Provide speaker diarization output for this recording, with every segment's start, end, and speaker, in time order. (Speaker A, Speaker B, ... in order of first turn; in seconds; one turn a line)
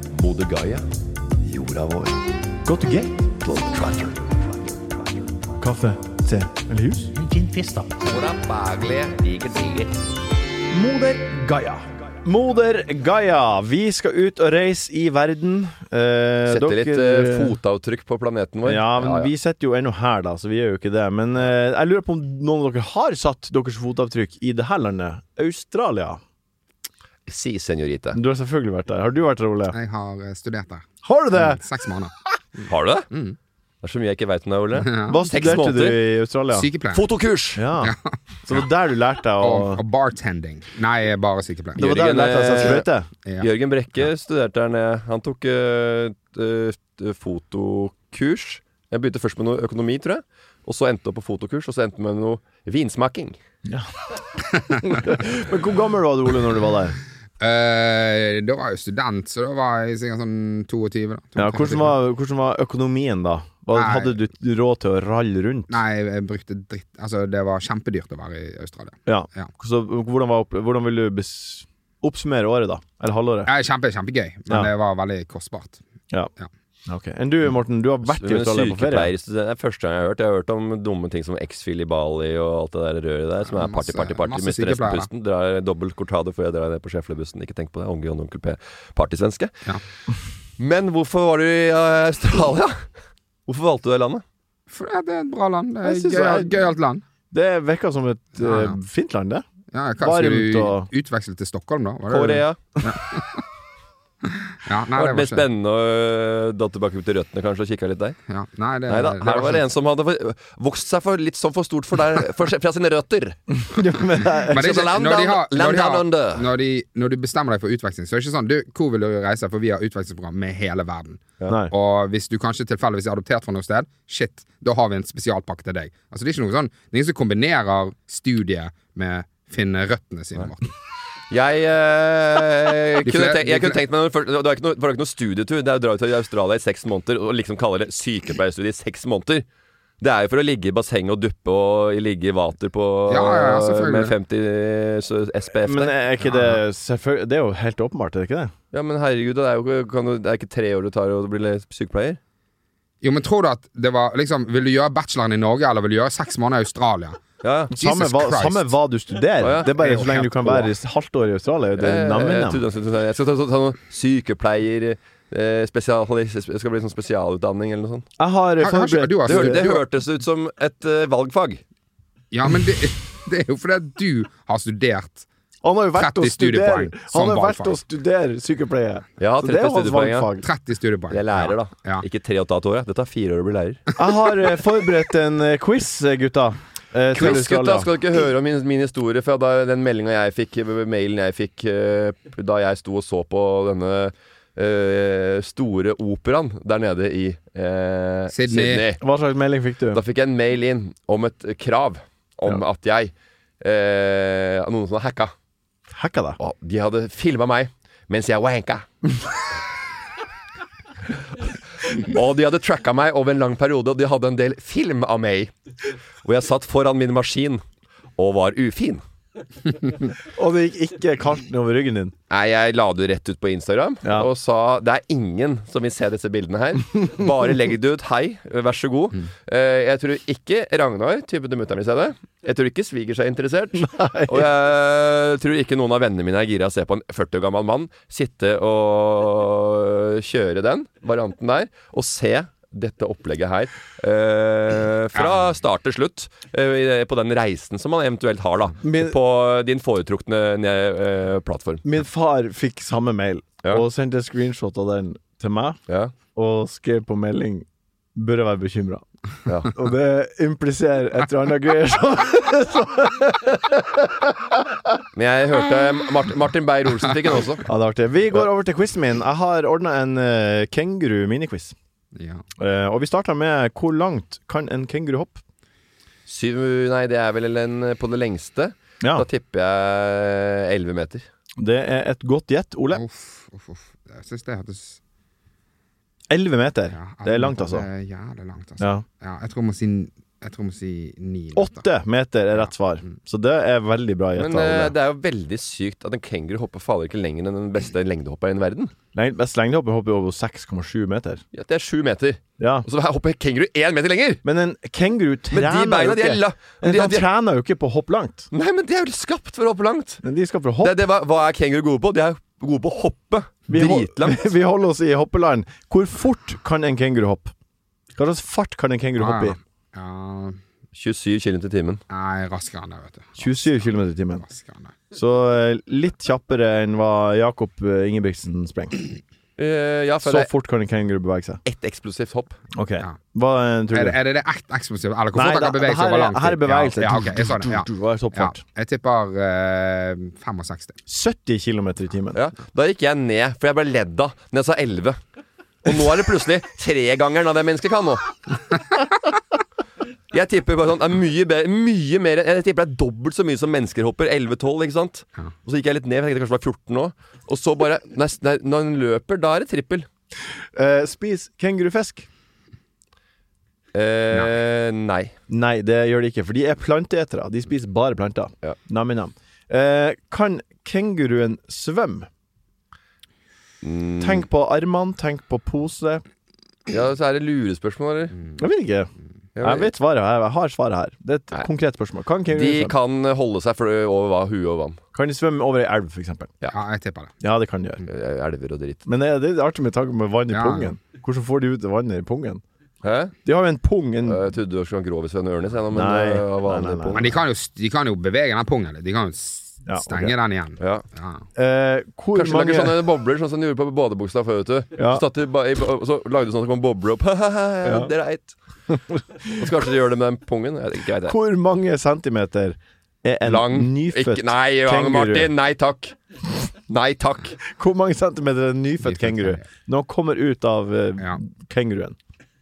Speaker A: 0.1-0.8
Speaker A: 1.4-2.2
Speaker B: 2.6-3.6
Speaker A: 3.5-4.3
Speaker B: 5.6-7.1
Speaker A: 7.2-10.0
Speaker B: 10.7-17.6
Speaker A: 16.5-19.3
Speaker B: 18.6-26.2
Speaker A: 27.3-28.2
Speaker B: 28.1-29.8
Speaker C: 29.7-33.4
Speaker B: 31.0-31.6
Speaker A: 32.7-33.1
Speaker A: 33.8-36.0
Speaker C: 34.8-35.3
Speaker B: 35.1-36.7
Speaker C: 36.5-37.1
Speaker A: 36.9-37.6
Speaker B: 37.6-39.8
Speaker C: 37.8-38.6
Speaker C: 39.4-42.0
Speaker B: 41.8-43.1
Speaker A: 41.8-42.9
Speaker A: 43.4-53.4
Speaker B: 54.9-57.0
Speaker C: 57.4-61.9
Speaker B: 61.4-65.8
Speaker C: 63.7-64.1
Speaker C: 65.7-69.5
Speaker B: 69.1-73.5
Speaker C: 73.5-75.8
Speaker B: 76.9-79.1
Speaker A: 78.0-89.6
Speaker C: 83.5-85.1
Speaker A: 90.6-92.9
Speaker A: 93.5-94.2
Speaker C: 94.7-97.0
Speaker B: 95.8-96.6
Speaker B: 97.3-99.4
Speaker C: 98.4-98.8
Speaker C: 99.7-103.4
Speaker B: 100.0-100.9
Speaker A: 102.1-102.6
Speaker C: 104.3-105.4
Speaker A: 104.9-108.2
Speaker C: 108.3-109.6
Speaker A: 108.9-113.4
Speaker B: 113.5-114.6
Speaker C: 114.4-130.7
Speaker A: 114.5-116.5
Speaker A: 131.3-139.4
Speaker C: 133.0-133.8
Speaker A: 140.0-145.9
Speaker C: 143.1-144.1
Speaker B: 145.6-148.5
Speaker A: 148.7-152.2
Speaker C: 153.0-158.7
Speaker A: 157.4-157.7
Speaker B: 157.7-162.6
Speaker A: 159.4-160.7
Speaker A: 161.8-168.1
Speaker B: 168.2-169.8
Speaker C: 168.6-169.8
Speaker A: 169.3-171.6
Speaker C: 172.3-175.3
Speaker B: 175.6-180.5
Speaker C: 175.9-177.8
Speaker A: 179.2-180.3
Speaker C: 180.4-182.0
Speaker A: 181.1-183.9
Speaker B: 184.0-187.9
Speaker A: 187.1-199.0
Speaker C: 198.3-198.8
Speaker B: 199.0-200.0
Speaker A: 199.9-205.3
Speaker B: 205.9-206.4
Speaker A: 206.4-208.9
Speaker A: 211.8-215.5
Speaker A: 216.2-217.6
Speaker A: 218.2-219.0
Speaker B: 220.2-222.1
Speaker A: 222.3-251.8
Speaker B: 233.8-234.5
Speaker C: 245.2-245.5
Speaker B: 248.8-249.1
Speaker B: 251.8-255.8
Speaker A: 255.9-256.1
Speaker B: 256.4-259.1
Speaker A: 259.5-259.7
Speaker B: 259.7-265.0
Speaker A: 265.1-267.6
Speaker B: 267.6-271.8
Speaker C: 272.1-272.4
Speaker B: 272.6-275.4
Speaker A: 276.3-281.3
Speaker B: 279.0-279.3
Speaker B: 281.6-283.0
Speaker C: 282.9-285.0
Speaker B: 286.3-287.9
Speaker C: 286.9-291.9
Speaker B: 288.8-289.1
Speaker B: 291.6-294.9
Speaker C: 292.6-293.1
Speaker A: 294.4-298.9
Speaker B: 299.1-301.4
Speaker A: 301.5-304.4
Speaker B: 302.6-302.9
Speaker B: 304.4-308.5
Speaker A: 305.5-307.3
Speaker A: 308.5-310.2
Speaker B: 310.2-311.0
Speaker A: 310.8-314.5
Speaker B: 313.7-317.5
Speaker B: 318.1-319.6
Speaker C: 319.2-320.6
Speaker A: 320.9-322.0
Speaker C: 322.1-323.9
Speaker B: 323.4-324.4
Speaker C: 324.4-324.9
Speaker B: 325.1-329.1
Speaker A: 329.6-330.5
Speaker B: 330.2-331.6
Speaker A: 331.6-332.6
Speaker B: 332.8-334.2
Speaker C: 333.9-341.0
Speaker B: 335.3-338.6
Speaker B: 341.1-342.4
Speaker A: 342.4-345.2
Speaker A: 345.8-348.3
Speaker A: 350.3-360.1
Speaker B: 360.8-362.3
Speaker A: 363.9-365.3
Speaker B: 365.5-372.3
Speaker A: 373.8-374.5
Speaker B: 374.2-376.2
Speaker A: 376.9-378.4
Speaker B: 378.6-382.9
Speaker A: 379.6-379.9
Speaker A: 382.5-385.0
Speaker B: 385.1-386.5
Speaker C: 386.7-387.3
Speaker B: 387.4-388.0
Speaker A: 388.1-389.0
Speaker B: 389.1-392.6
Speaker C: 390.5-391.0
Speaker A: 393.0-393.4
Speaker B: 393.4-394.4
Speaker A: 394.2-397.3
Speaker B: 395.9-397.2
Speaker C: 397.1-401.4
Speaker B: 399.9-400.3
Speaker B: 401.5-403.0
Speaker A: 402.4-408.5
Speaker B: 405.0-405.2
Speaker B: 407.8-408.1
Speaker B: 408.9-409.6
Speaker A: 409.5-411.4
Speaker B: 411.3-415.5
Speaker A: 413.4-416.1
Speaker A: 416.9-417.6
Speaker B: 417.7-422.1
Speaker C: 419.0-419.6